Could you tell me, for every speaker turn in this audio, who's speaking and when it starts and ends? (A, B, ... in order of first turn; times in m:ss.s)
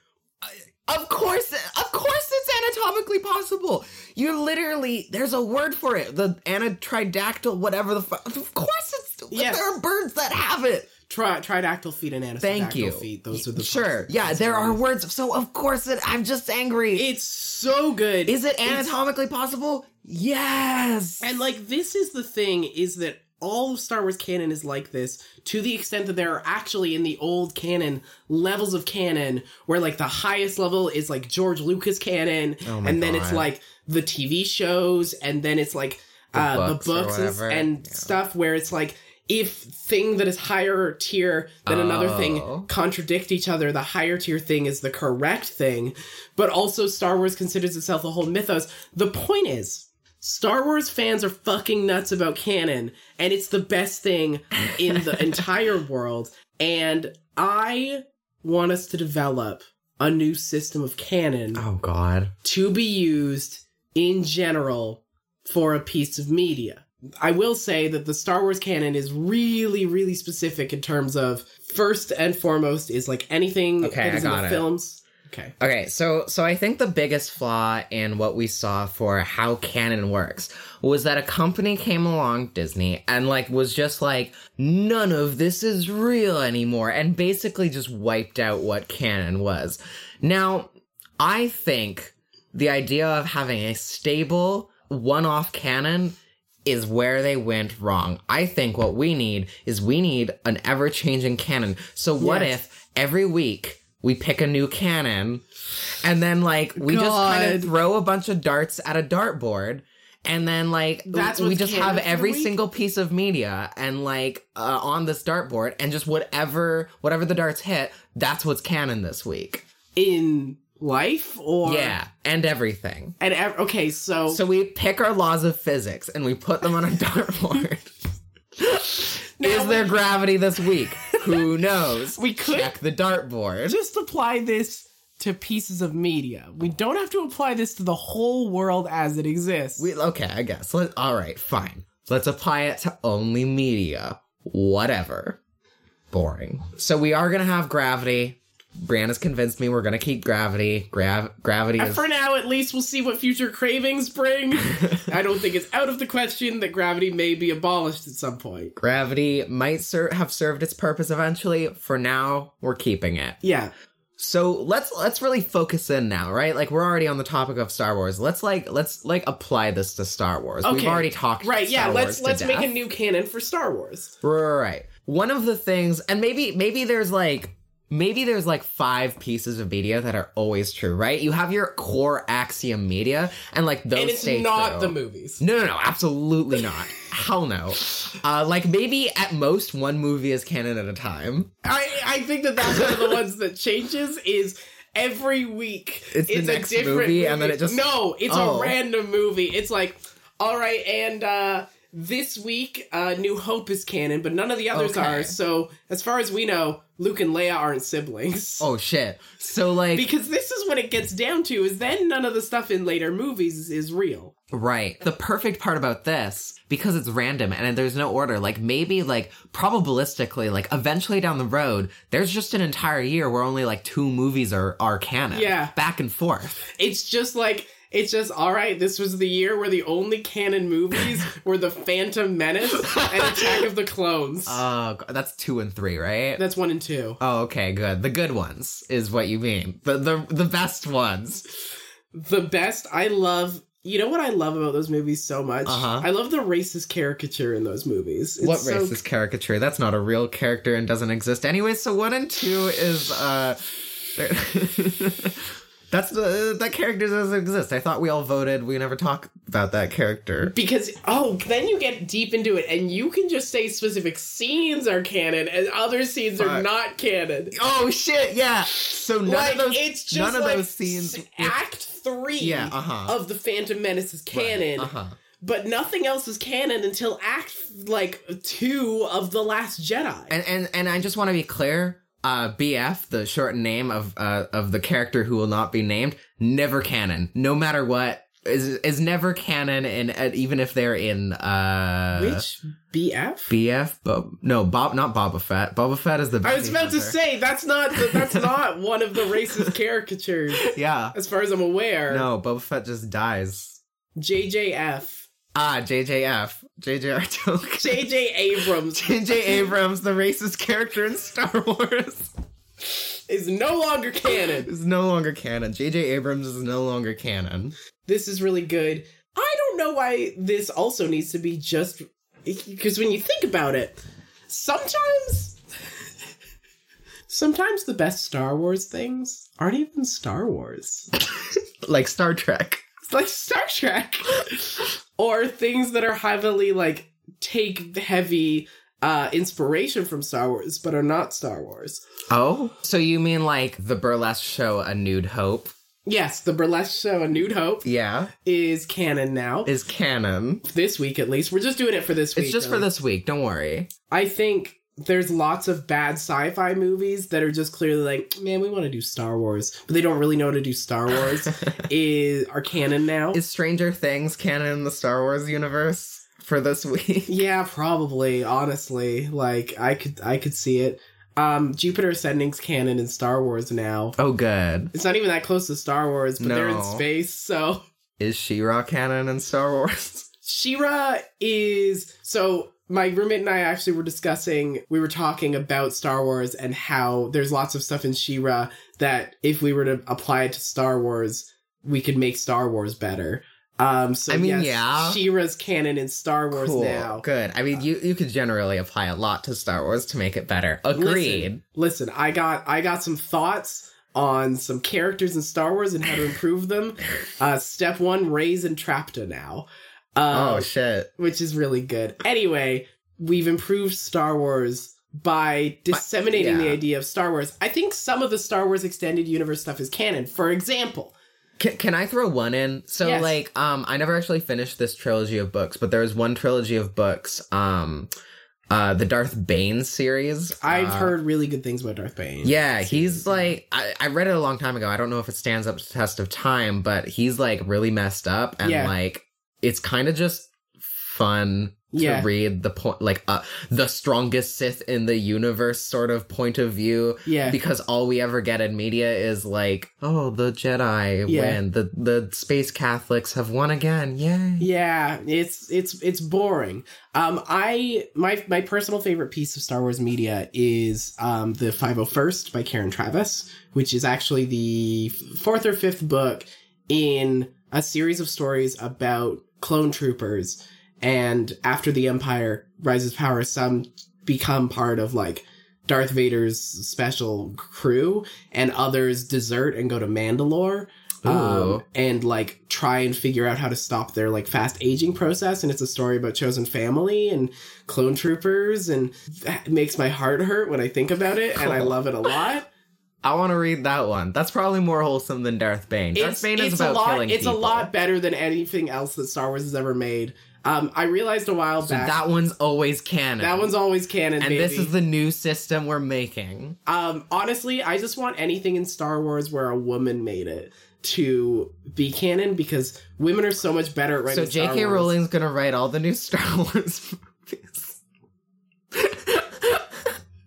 0:00.4-0:10.9 A
0:09.3-0:09.8 B
0:11.1-0:14.8 B
0:12.4-0:17.1 A
0:16.9-0:18.9 B
0:18.3-0:21.3 A
0:21.2-1:01.6 B
0:32.6-0:33.5 A
0:36.3-0:38.1 A
0:41.6-0:42.7 A
0:54.9-0:55.3 A
1:01.6-1:02.3 A
1:02.4-1:15.5 B
1:13.8-1:14.7 A
1:15.6-1:45.4 A
1:42.2-1:42.6 B
1:46.0-1:59.6 A
1:46.8-1:47.7 B
1:51.1-1:52.5 B
1:59.9-2:02.0 B
2:01.6-2:03.1 A
2:03.2-2:04.4 B
2:04.3-2:07.9 A
2:08.6-2:13.8 A
2:09.4-2:10.0 B
2:11.1-2:11.4 B
2:12.1-2:12.7 B
2:13.7-2:19.9 B
2:19.8-2:25.4 A
2:26.1-2:32.0 A
2:31.8-2:38.7 B
2:38.8-2:43.4 A
2:43.4-2:43.7 B
2:44.2-2:52.7 A
2:50.6-2:54.1 B
2:54.2-3:11.5 A
3:03.9-3:05.4 B
3:11.6-3:28.7 B
3:12.6-3:13.0 A
3:16.1-3:18.8 A
3:24.7-3:25.4 A
3:28.6-3:30.1 A
3:29.9-3:34.3 B
3:34.5-3:46.6 A
3:45.3-3:45.7 B
3:46.7-3:54.6 B
3:52.9-3:53.5 A
3:54.4-3:56.4 A
3:56.4-3:57.2 B
3:57.2-4:01.4 A
4:02.1-4:09.0 B
4:05.6-4:06.1 A
4:08.4-4:20.5 A
4:20.4-4:27.6 B
4:26.4-4:26.7 A
4:27.5-4:31.6 A
4:28.8-4:40.4 B
4:32.4-4:33.2 A
4:34.3-4:35.1 A
4:40.3-4:52.4 A
4:52.1-4:53.5 B
4:53.5-4:57.2 A
4:56.4-5:02.3 B
4:58.0-4:58.4 A
4:59.4-4:59.7 A
5:00.6-5:01.1 A
5:02.1-5:03.8 A
5:04.2-5:05.3 B
5:05.5-5:08.1 A
5:07.8-5:09.7 B
5:08.9-5:12.3 A
5:13.3-5:14.7 B
5:14.3-5:17.7 A
5:18.0-5:25.6 B
5:27.3-5:31.1 B
5:31.8-5:32.8 A
5:33.1-5:42.0 B
5:42.3-5:45.7 A
5:46.1-5:47.9 B
5:47.8-5:48.3 A
5:48.4-5:49.7 B
5:49.6-5:50.6 A
5:50.6-5:52.9 B
5:52.4-5:53.9 A
5:54.1-6:03.4 B
6:03.3-6:07.4 A
6:07.3-6:14.2 B
6:14.2-6:14.9 A
6:14.9-6:17.8 B
6:16.4-6:17.1 A
6:18.2-6:20.3 A
6:20.4-6:37.2 B
6:34.3-6:35.2 A
6:36.5-6:41.6 A
6:40.9-7:01.2 B
6:50.3-6:51.1 A
6:55.9-6:56.8 A
7:01.6-7:08.1 A
7:03.0-7:03.4 B
7:08.7-7:11.1 A
7:10.6-7:13.5 B
7:12.4-7:34.7 A
7:18.6-7:18.9 B
7:21.9-7:22.3 B
7:27.2-7:27.6 B
7:31.2-7:31.6 B
7:34.6-8:12.7 B
8:01.2-8:01.8 A
8:11.6-8:11.9 A
8:13.2-8:17.9 A
8:16.1-8:22.2 B
8:21.8-8:23.7 A
8:23.4-8:24.9 B
8:24.4-8:26.8 A
8:26.9-8:35.1 B
8:34.3-8:38.0 A
8:38.9-8:40.1 A